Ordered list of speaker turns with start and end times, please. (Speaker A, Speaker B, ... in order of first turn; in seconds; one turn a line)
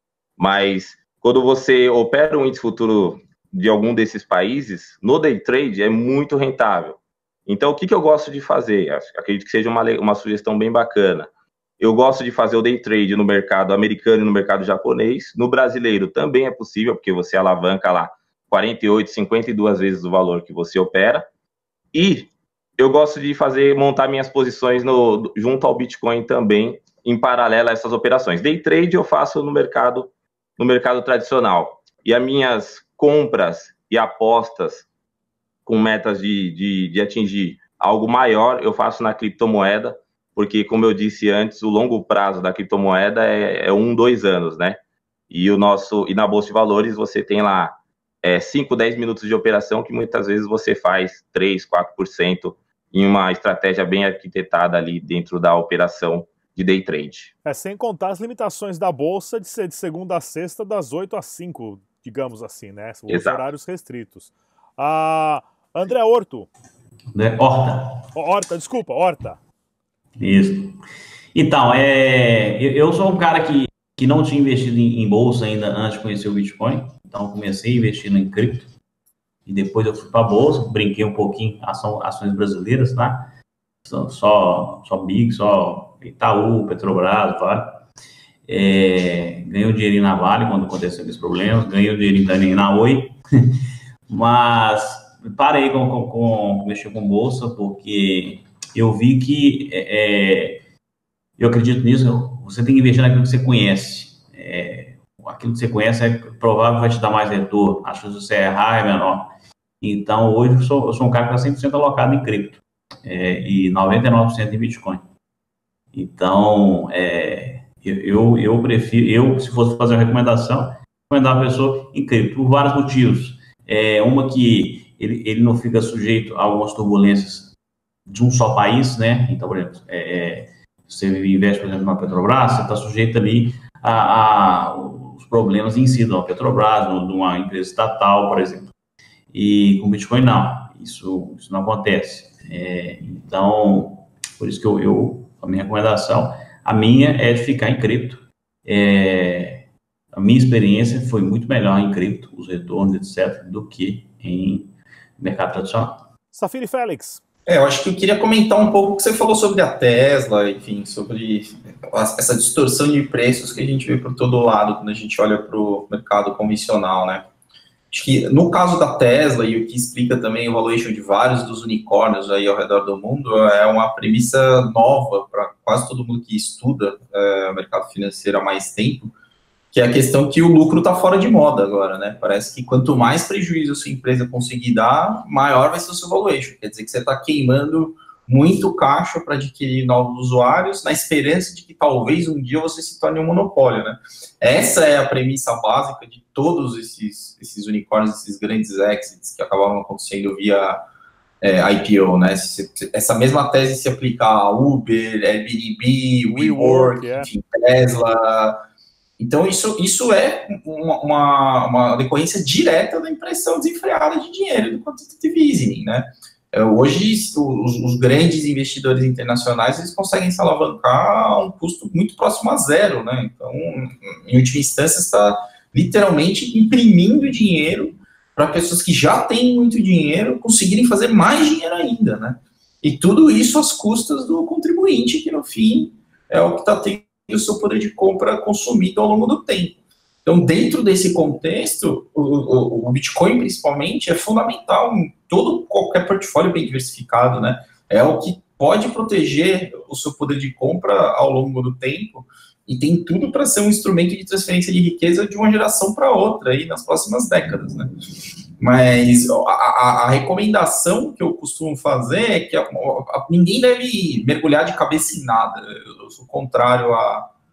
Speaker A: 0.4-21.3
Speaker A: 21.9-34.9
Speaker A: 35.6-44.8
Speaker A: 45.3-57.3
Speaker B: 57.5-66.5
Speaker A: 63.1-63.5
Speaker C: 67.1-68.1
Speaker B: 68.1-69.4
Speaker C: 70.2-70.8
Speaker C: 71.3-78.7
Speaker C: 79.5-83.3
Speaker C: 83.8-87.9
Speaker C: 88.5-100.6
Speaker C: 101.4-115.0
Speaker C: 115.9-127.5
Speaker C: 128.1-138.7
Speaker C: 139.3-156.1
Speaker B: 156.3-157.2
Speaker D: 157.5-167.3
Speaker D: 167.9-179.1
Speaker D: 179.7-200.8
Speaker D: 201.4-208.6
Speaker B: 206.3-207.3
Speaker D: 209.2-257.9
Speaker D: 258.6-267.3